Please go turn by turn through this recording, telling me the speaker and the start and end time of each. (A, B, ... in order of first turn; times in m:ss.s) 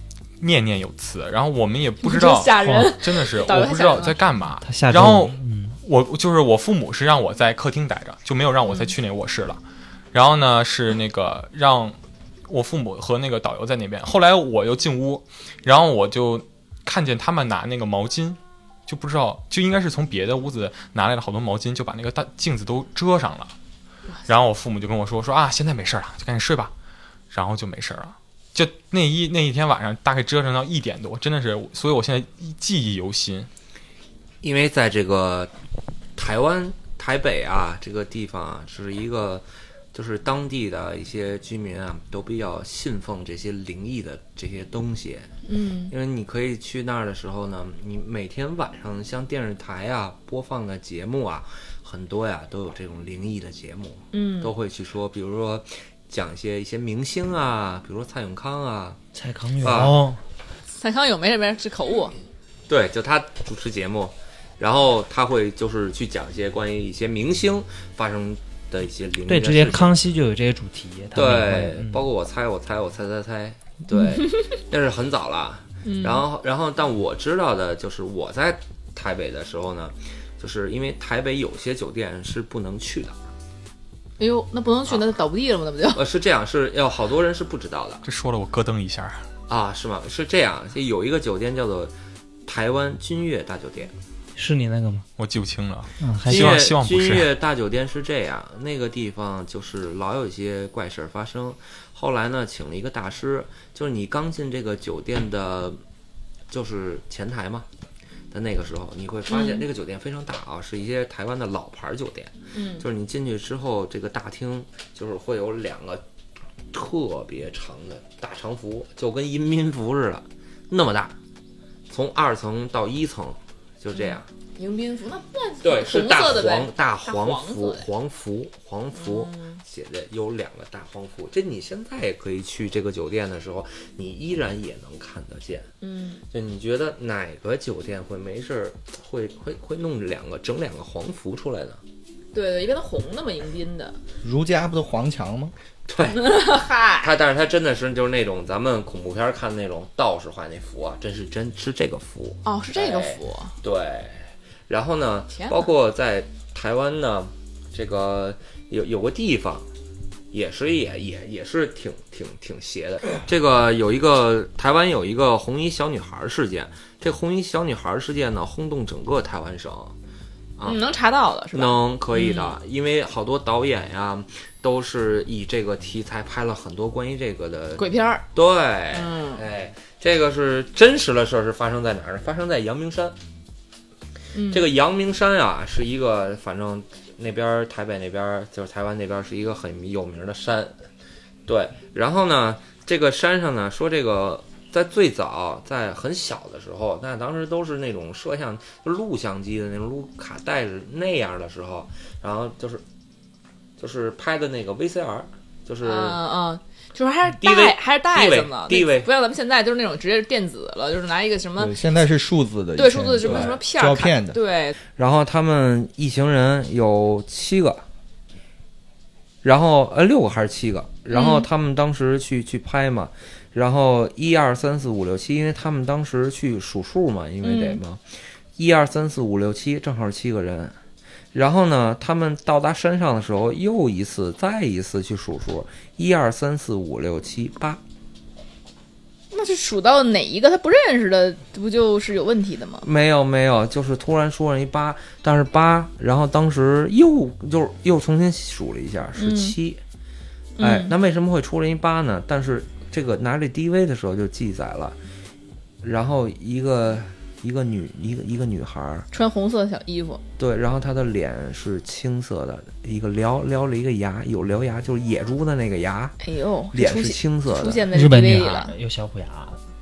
0:00.4-0:09.6 A
0:02.0-0:04.2 B
0:02.6-0:02.9 C
0:04.6-0:05.8 C
0:08.6-0:08.9 B
0:10.1-0:12.0 A
0:12.5-0:23.5 A
0:24.3-0:26.7 A
0:27.3-0:33.5 A
0:34.4-0:35.5 D
0:36.2-0:45.3 D
0:45.5-0:45.9 B
0:45.9-0:59.0 D
0:54.1-0:54.5 B
0:59.1-1:00.2 C
0:59.6-1:00.0 D
1:00.8-1:02.1 B
1:02.7-1:10.0 D
1:09.3-1:12.1 C
1:11.1-1:23.2 D
1:13.9-1:14.4 B
1:15.8-1:16.3 B
1:24.2-1:26.0 B
1:25.9-1:28.0 D
1:28.0-1:29.2 A
1:29.5-1:31.9 D
1:32.5-1:33.9 D
1:34.4-1:35.0 C
1:35.2-1:37.3 A
1:36.0-1:36.7 C
1:36.3-1:45.8 D
1:46.5-1:47.7 D
1:48.3-1:56.0 D
1:49.3-1:49.7 B
1:52.5-1:52.8 B
1:56.7-2:01.2 D
2:01.9-2:04.3 D
2:03.9-2:07.9 B
2:05.6-2:15.7 D
2:08.9-2:09.6 B
2:15.8-2:16.2 B
2:16.3-2:21.8 D
2:22.3-2:24.0 B
2:24.2-2:25.5 E
2:25.9-2:39.7 D
2:26.2-2:27.1 B
2:32.4-2:33.5 B
2:35.3-2:35.7 B
2:40.3-2:50.0 D
2:50.6-2:52.6 B
2:51.5-3:03.2 D
2:57.8-2:58.3 B
2:58.9-2:59.4 B
3:04.3-3:04.7 B
3:04.5-3:10.8 D
3:11.5-3:22.8 D
3:23.8-3:26.2 D
3:25.8-3:31.8 B
3:27.4-3:29.1 D
3:31.6-3:34.4 E
3:32.8-3:34.8 B
3:35.0-3:37.8 D
3:39.4-3:48.0 D
3:41.1-3:41.5 B
3:47.4-3:47.8 B
3:48.6-3:50.8 D
3:51.3-3:57.8 D
3:59.3-4:02.9 B
4:02.8-4:09.8 D
4:09.2-4:09.6 B
4:10.6-4:11.0 B
4:10.6-4:15.0 D
4:15.8-4:19.1 D
4:19.1-4:20.2 B
4:20.4-4:26.2 D
4:26.2-4:28.7 B
4:26.7-4:27.9 D
4:27.9-4:29.6 C